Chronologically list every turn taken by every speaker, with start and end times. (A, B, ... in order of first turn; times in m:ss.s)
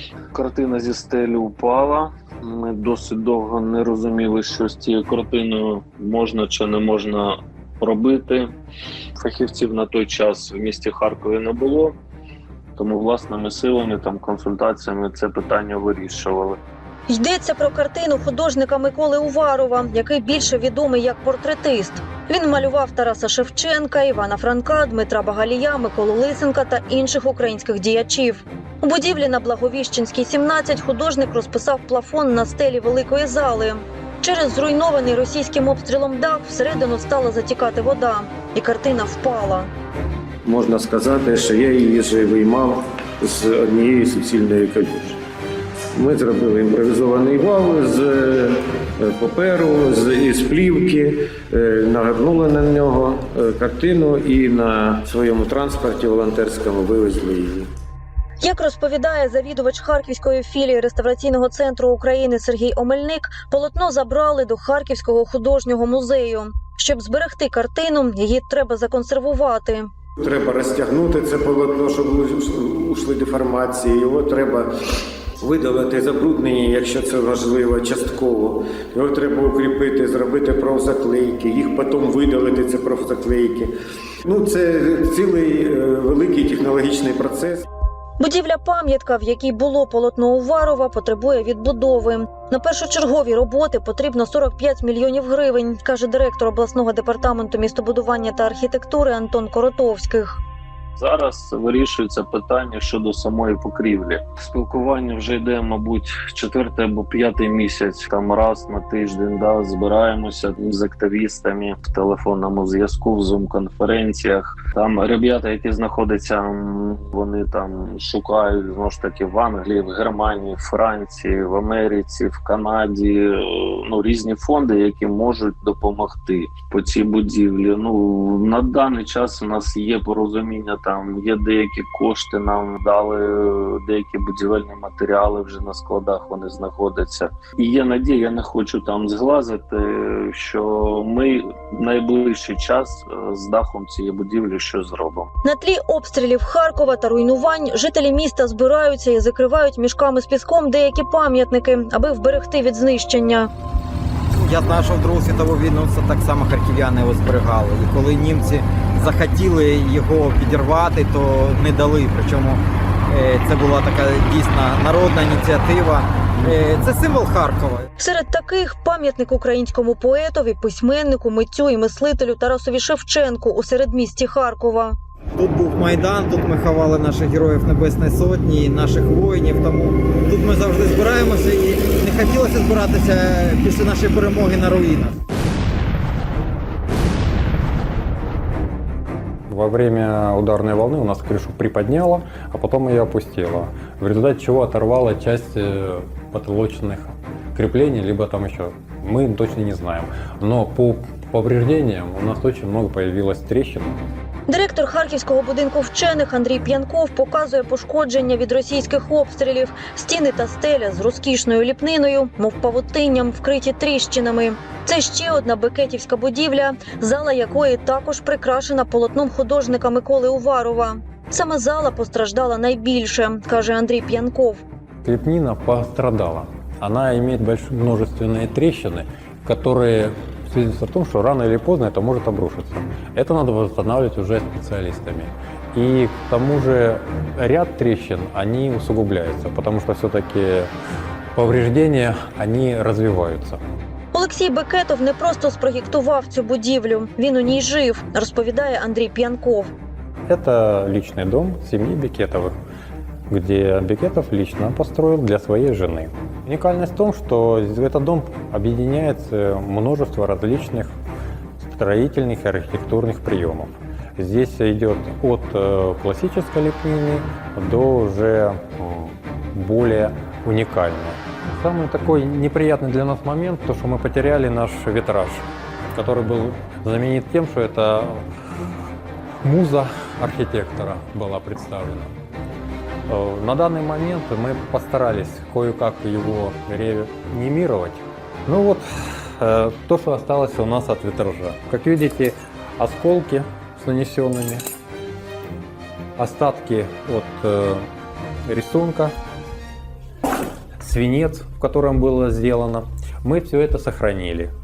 0:00.3-0:08.5 A
0:09.2-0:12.0 A
0:12.8-0:16.6 A
0:17.1-0:39.7 B
0:40.4-0:45.2 C
0:45.9-0:57.7 C
0:58.4-1:09.9 B
1:10.2-1:14.7 C
1:15.4-1:23.7 C
1:24.2-1:27.6 C
1:28.2-1:40.4 B
1:41.0-2:25.3 A
2:25.4-2:33.5 B
2:34.3-2:47.8 D
2:48.0-2:55.0 B
2:55.4-3:05.2 D
3:09.5-3:23.9 E
3:24.5-3:44.6 B
3:45.0-4:00.7 E
4:01.3-4:03.6 E
4:04.1-4:09.7 B
4:10.3-4:12.5 E
4:13.3-4:20.9 E
4:21.6-4:38.2 E
4:39.4-4:42.1 E
4:43.1-4:54.6 E
4:56.2-4:57.9 E
4:58.4-4:59.1 E
5:00.8-5:04.5 E